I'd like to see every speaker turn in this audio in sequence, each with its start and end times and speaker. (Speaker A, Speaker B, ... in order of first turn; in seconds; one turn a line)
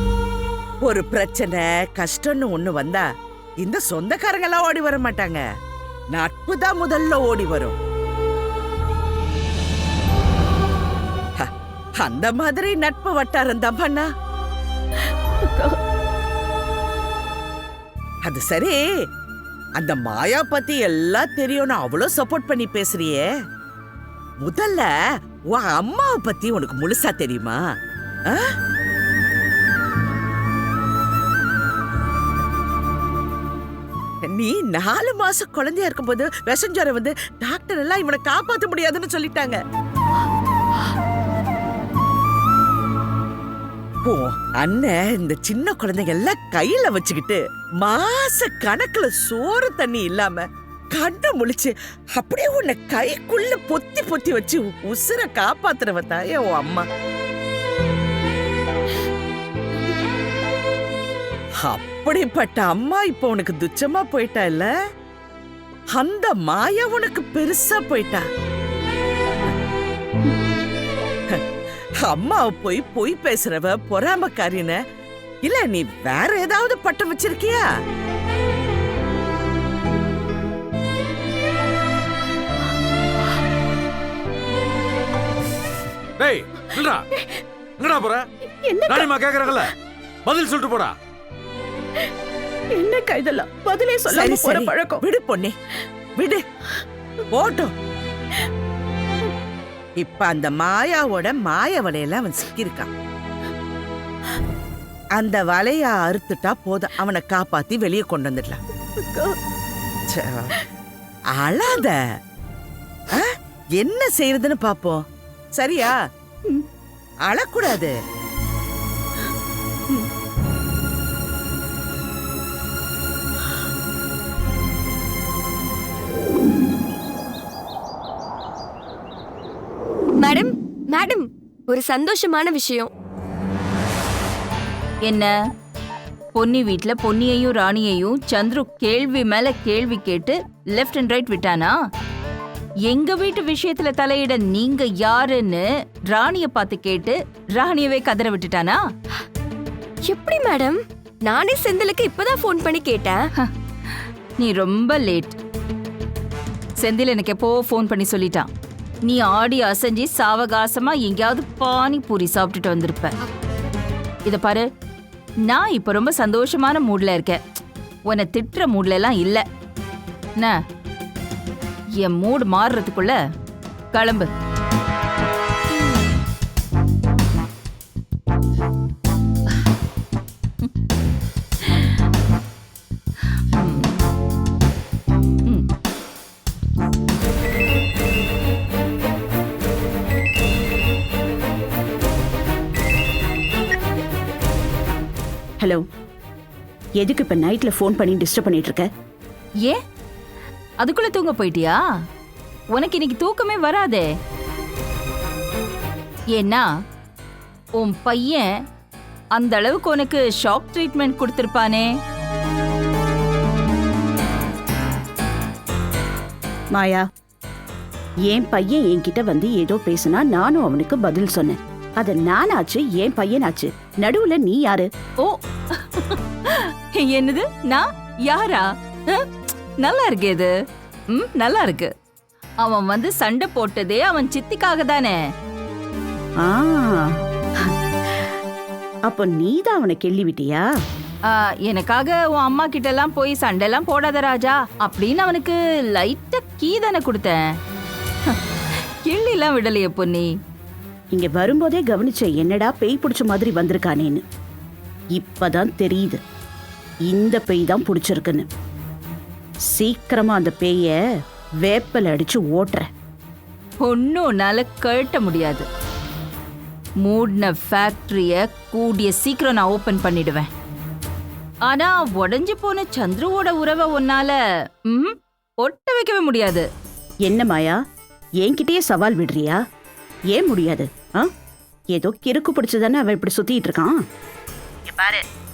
Speaker A: 0.8-3.0
Speaker A: 3.6-5.4
Speaker A: 6.1-7.8
Speaker A: 12.0-14.1
Speaker A: 18.2-18.8
Speaker A: 19.8-23.2
Speaker A: 24.4-24.9
Speaker A: 25.5-27.6
Speaker A: 34.2-39.6
Speaker A: 44.0-56.8
Speaker A: 61.6-64.7
Speaker A: 65.9-68.2
Speaker A: 72.1-74.8
Speaker A: 75.4-77.6
Speaker B: 86.2-87.0
Speaker B: 87.8-88.2
Speaker C: 88.6-89.7
Speaker B: 88.9-89.7
Speaker B: 90.2-90.9
Speaker C: 92.8-95.0
Speaker A: 94.1-95.5
Speaker A: 96.2-96.4
Speaker A: 97.3-97.7
Speaker A: 100.0-102.9
Speaker A: 105.2-108.6
Speaker C: 109.0-109.3
Speaker A: 110.1-110.5
Speaker A: 111.4-112.0
Speaker A: 113.8-115.0
Speaker A: 115.6-115.9
Speaker A: 117.3-117.9
Speaker D: 130.2-132.9
Speaker E: 136.3-141.7
Speaker E: 142.9-148.8
Speaker D: 150.0-153.2
Speaker E: 154.4-155.4
Speaker E: 156.8-158.5
Speaker E: 159.1-163.1
Speaker E: 164.2-164.6
Speaker E: 165.5-167.4
Speaker E: 168.1-169.4
Speaker E: 172.0-173.2
Speaker E: 173.9-174.3
Speaker E: 183.5-183.9
Speaker C: 197.0-198.8
Speaker E: 200.8-201.8
Speaker E: 202.7-204.0
Speaker E: 206.3-206.6
Speaker E: 207.8-208.4
Speaker E: 209.4-211.9
Speaker C: 216.8-217.0
Speaker C: 218.3-224.8
Speaker E: 225.2-229.2
Speaker E: 229.8-230.5
Speaker E: 231.1-231.9
Speaker E: 232.6-235.2
Speaker C: 236.4-237.0
Speaker C: 239.1-240.6
Speaker E: 241.3-247.4
Speaker E: 249.1-250.3
Speaker C: 251.1-254.2
Speaker C: 255.2-256.2
Speaker C: 257.1-258.5
Speaker C: 259.7-260.9
Speaker C: 261.6-262.8
Speaker E: 263.8-265.6
Speaker E: 267.0-270.5
Speaker E: 271.7-274.3
Speaker E: 274.9-276.6
Speaker C: 277.3-277.8
Speaker C: 278.4-279.6
Speaker C: 280.3-281.2
Speaker C: 281.9-283.9
Speaker C: 284.9-285.2